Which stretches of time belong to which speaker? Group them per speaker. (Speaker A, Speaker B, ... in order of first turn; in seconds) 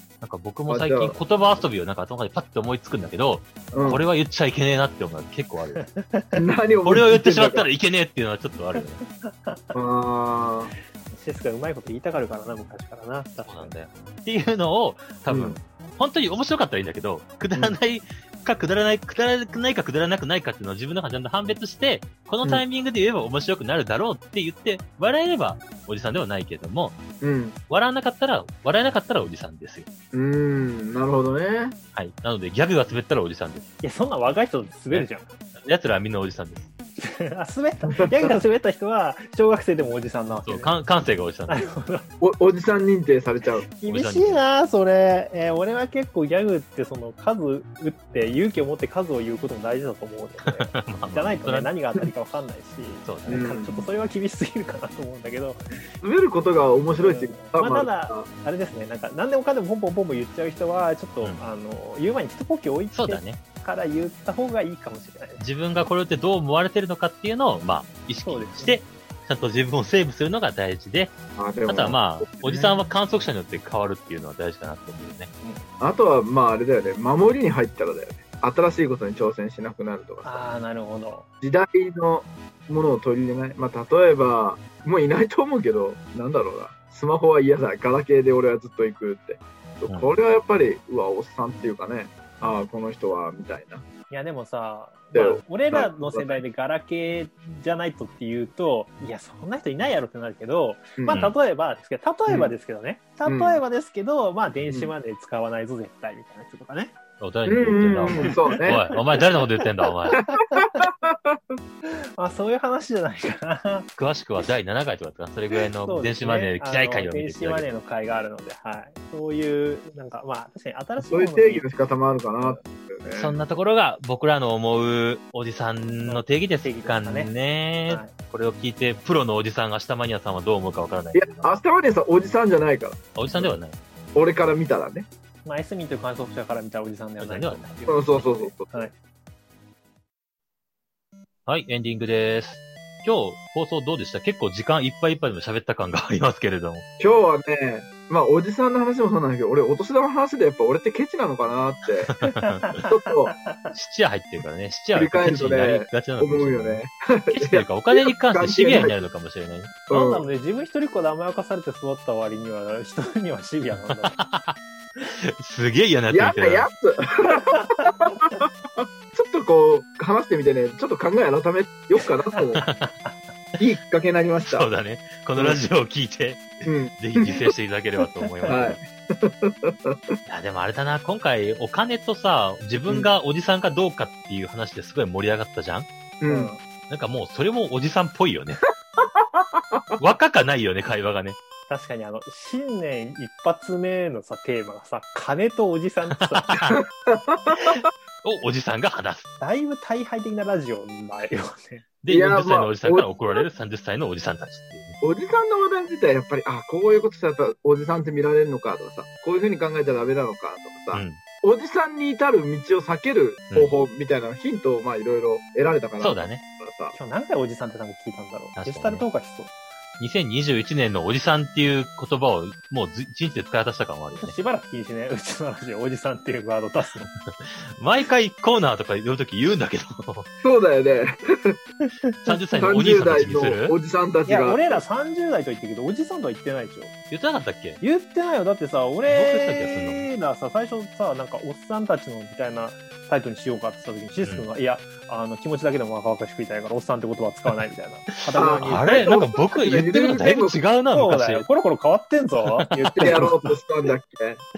Speaker A: 0.2-5.8, 6.8-9.0, 13.4-27.0, 27.7-29.9, 31.9-33.7, 34.9-36.7, 40.5-41.6, 43.9-44.4, 50.5-51.7, 53.0-53.5, 62.9-63.4, 65.4-71.1, 71.7-75.3, 107.2-110.3, 114.0-117.7, 123.1-131.6, 133.2-133.8, 137.2-137.8, 141.5-146.9, 152.1-152.7, 153.7-159.8, 163.9-166.7, 172.6-172.9, 174.4-178.8, 180.3-185.9, 186.9-188.6, 190.0-191.4, 196.2-196.8, 198.2-199.3, 202.0-205.0, 210.9-211.2, 216.0-216.4, 218.6-219.1, 220.0-224.3, 227.2-230.3, 232.2-233.8, 237.1-237.8, 239.1-240.1, 244.2-244.5, 248.3-251.4, 252.4-253.0
Speaker B: 0.7-1.2, 3.7-4.0, 6.4-7.7, 9.7-10.7, 15.3-15.6, 27.2-27.6, 30.1-31.8, 38.0-38.4, 42.2-43.7, 53.3-53.9, 56.0-58.3, 71.4-72.8, 75.8-80.4, 81.4-93.8, 95.2-96.4, 101.0-101.3, 102.3-102.5, 103.2-103.6, 104.7-104.9, 107.5-108.9, 110.2-111.5, 121.0-123.4, 131.1-133.6, 134.2-135.1, 137.9-138.9, 147.0-152.1, 152.8-153.3, 154.9-159.1, 159.9-160.3, 166.1-172.6, 173.6-174.7, 176.6-177.4, 178.5-180.1, 186.2-186.5, 189.0-190.0, 196.8-197.8, 202.1-203.5, 205.0-216.9, 230.4-231.6, 232.6-234.8, 248.3-250.6, 252.8-254.4
Speaker C: 5.8-6.4, 8.8-9.7, 11.1-13.7, 33.8-35.3, 37.0-40.7, 41.5-42.1, 43.7-55.6, 57.0-65.4, 68.2-68.8, 75.4-75.7, 80.2-81.3, 94.1-107.0, 108.2-108.6, 110.2-110.9, 111.8-113.9, 115.9-121.7, 126.0-127.3, 135.4-138.9, 152.4-152.9, 159.9-164.2, 167.5-167.9, 172.3-173.2, 186.2-186.6, 191.7-196.6, 199.4-201.9, 216.9-219.5, 224.2-227.1, 232.1-232.4, 234.3-236.9, 237.8-249.1, 250.9-253.6